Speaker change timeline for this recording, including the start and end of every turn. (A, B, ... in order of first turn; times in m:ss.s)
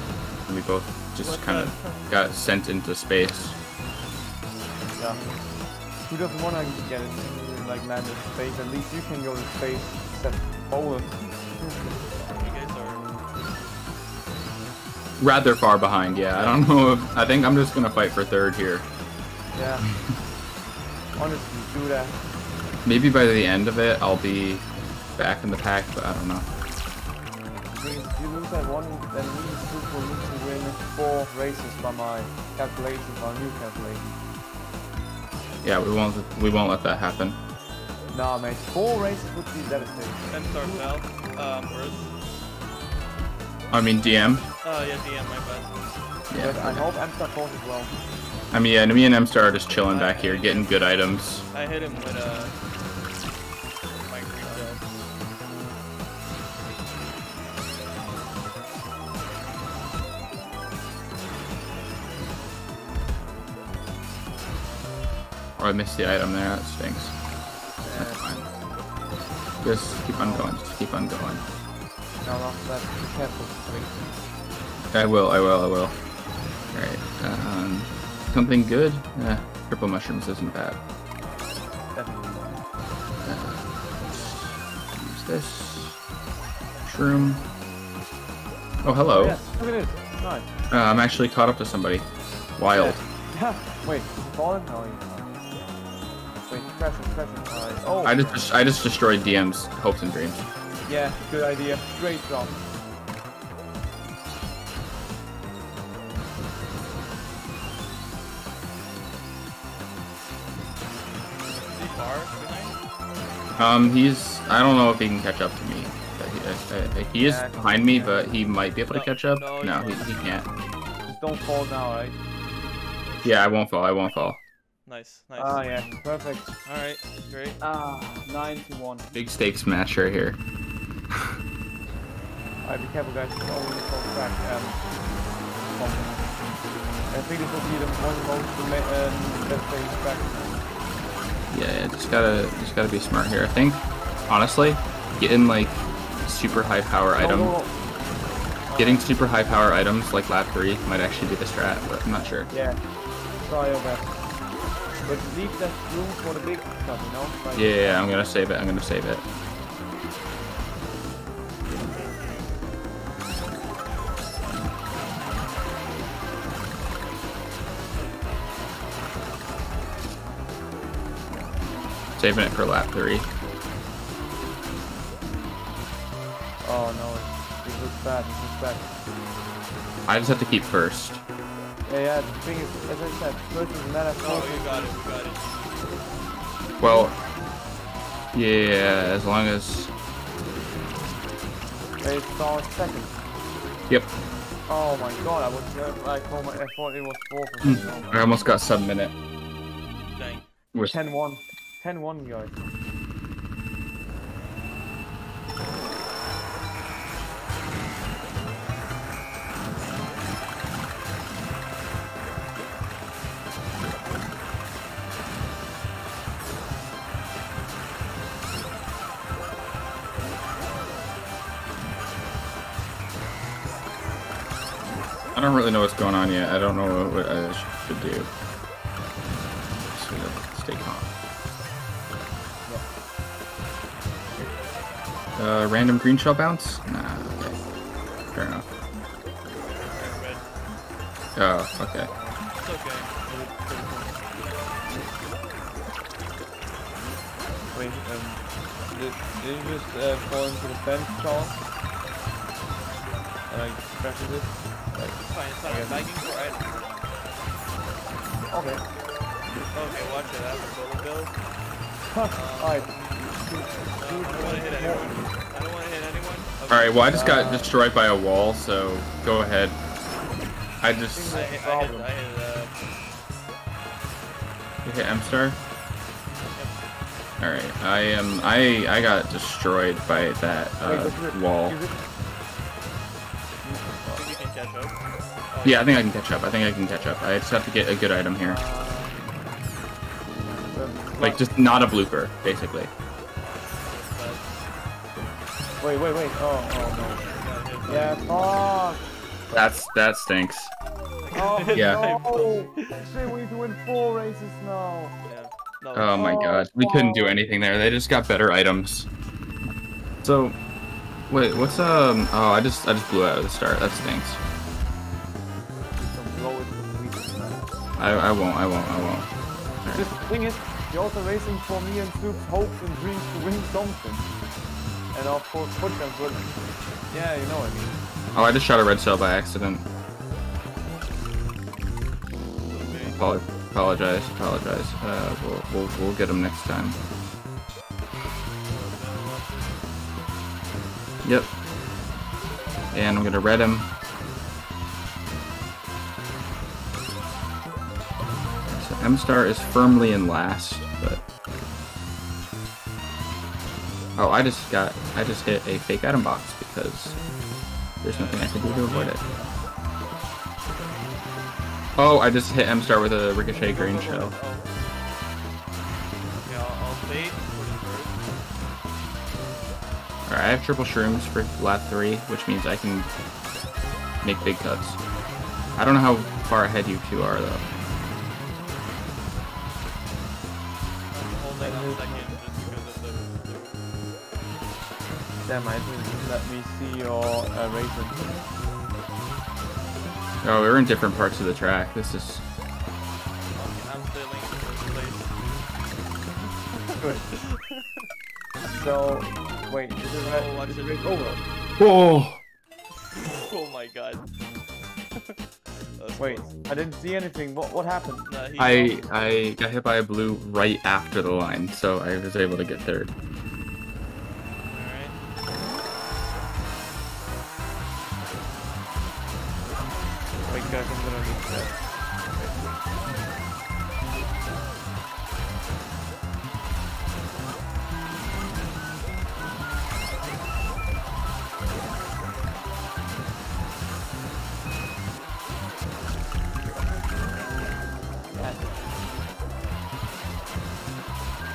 0:00.5-0:03.6 A
0:01.2-0:02.0 B
0:05.0-0:05.2 C
0:06.0-0:12.1 C
0:12.3-0:13.0 B
0:15.2-0:18.8 A
0:19.5-0:19.8 C
0:21.2-0:22.2 C
0:22.8-0:24.6 A
0:25.2-0:26.4 A
0:27.7-0:34.1 C
0:35.6-0:37.4 A
0:38.1-0:40.9 C
0:40.3-0:42.1 B
0:43.7-0:44.4 A
0:44.6-0:45.8 B
0:46.3-0:46.8 A
0:46.4-0:47.9 C
0:48.5-0:51.4 A
0:49.9-0:50.8 B
0:51.5-0:52.5 B
0:54.0-0:54.8 B
0:54.4-0:54.8 C
1:05.6-1:07.1 A
1:07.8-1:08.2 C
1:07.9-1:08.5 A
1:09.6-1:11.4 A
1:10.1-1:10.5 C
1:12.2-1:14.1 C
1:14.9-1:16.0 A
1:16.7-1:20.8 A
1:21.9-1:22.6 C
1:23.2-1:26.0 A
1:26.8-1:27.4 A
1:28.8-1:29.4 A
1:29.1-1:30.5 C
1:30.7-1:33.0 A
1:32.7-1:35.4 C
1:36.4-1:38.5 C
1:38.0-1:40.4 A
1:40.8-1:42.6 C
1:51.5-1:52.8 B
1:53.6-2:00.4 A
1:57.2-1:58.3 C
1:58.9-2:00.3 B
2:01.0-2:02.2 C
2:03.0-2:03.4 B
2:03.2-2:04.4 A
2:04.8-2:05.7 B
2:05.4-2:06.5 C
2:06.6-2:07.6 B
2:07.6-2:09.1 C
2:09.1-2:10.4 A
2:12.6-2:14.9 C
2:15.6-2:16.3 C
2:17.1-2:20.6 C
2:21.5-2:27.5 A
2:27.2-2:27.7 C
2:28.7-2:29.1 C
2:28.8-2:32.5 A
2:32.5-2:32.8 C
2:33.4-2:34.2 C
2:35.0-2:38.1 C
2:37.5-2:39.2 A
2:52.2-2:53.3 A
2:56.6-2:58.9 C
3:00.0-3:01.2 A
3:01.8-3:04.9 C
3:04.2-3:06.0 B
3:06.8-3:07.1 A
3:06.8-3:07.1 C
3:08.3-3:09.9 A
3:12.0-3:13.2 C
3:14.7-3:18.3 C
3:17.6-3:19.1 A
3:20.1-3:20.5 B
3:20.9-3:22.6 C
3:45.3-3:48.3 A
3:49.9-3:51.1 A
3:55.4-3:57.6 A
3:58.3-3:58.6 A
3:59.6-4:00.4 B
4:01.3-4:02.1 A
4:02.1-4:02.4 C
4:02.6-4:04.8 B
4:07.7-4:11.6 C
4:13.5-4:16.1 C
4:15.2-4:17.1 B
4:18.5-4:18.8 C
4:19.7-4:21.4 B
4:22.1-4:25.2 C
4:22.3-4:23.0 B
4:23.9-4:27.0 B
4:26.7-4:29.8 A
4:27.1-4:27.7 C
4:30.8-4:31.4 A
4:31.1-4:32.1 C
4:31.3-4:32.8 B
4:34.8-4:35.6 A
4:36.5-4:36.8 B
4:37.4-4:41.8 A
4:40.8-4:42.0 C
4:43.6-4:44.2 C
4:44.1-4:44.9 B
4:45.5-4:46.0 B
4:45.6-4:48.6 A
4:48.4-4:49.3 C
4:50.7-4:51.4 C
4:51.2-4:52.9 A
4:53.5-4:54.5 B
4:55.8-4:57.2 C
4:56.9-4:58.7 B
4:57.8-4:59.0 C
4:59.5-5:00.7 A
5:01.2-5:03.1 B
5:01.3-5:05.2 C
5:01.7-5:02.0 A
5:05.2-5:06.4 B
5:05.9-5:09.1 A
5:06.1-5:07.4 C
5:10.2-5:10.6 A
5:11.3-5:14.4 A
5:15.9-5:17.7 C
5:18.0-5:19.3 A
5:19.8-5:20.1 A
5:19.9-5:24.3 C
5:25.1-5:26.5 C
5:27.0-5:28.0 C
5:28.3-5:29.8 A
5:32.6-5:33.2 B
5:33.1-5:37.0 A
5:38.6-5:39.8 B
5:41.2-5:41.5 A
5:42.9-5:43.9 A
5:48.6-5:51.2 A
5:54.2-5:57.2 A
5:58.0-5:59.2 A
5:58.0-5:59.4 B
6:02.0-6:04.3 A
6:03.5-6:04.7 B
6:06.4-6:08.2 B
6:10.3-6:13.1 A
6:14.2-6:15.0 A
6:15.8-6:17.6 A
6:21.1-6:23.8 B
6:21.6-6:22.4 C
6:25.4-6:28.4 C
6:30.4-6:32.4 A
6:33.5-6:35.6 B
6:36.7-6:37.9 B
6:37.0-6:37.2 C
6:38.7-6:41.4 C
6:40.2-6:41.4 B
6:41.8-6:42.4 A
6:43.1-6:44.3 B
6:45.9-6:46.5 B
6:46.2-6:48.3 C
6:48.3-6:49.0 B
6:48.6-6:53.1 A
6:54.7-6:55.2 B
7:00.4-7:02.6 C
7:18.3-7:18.8 C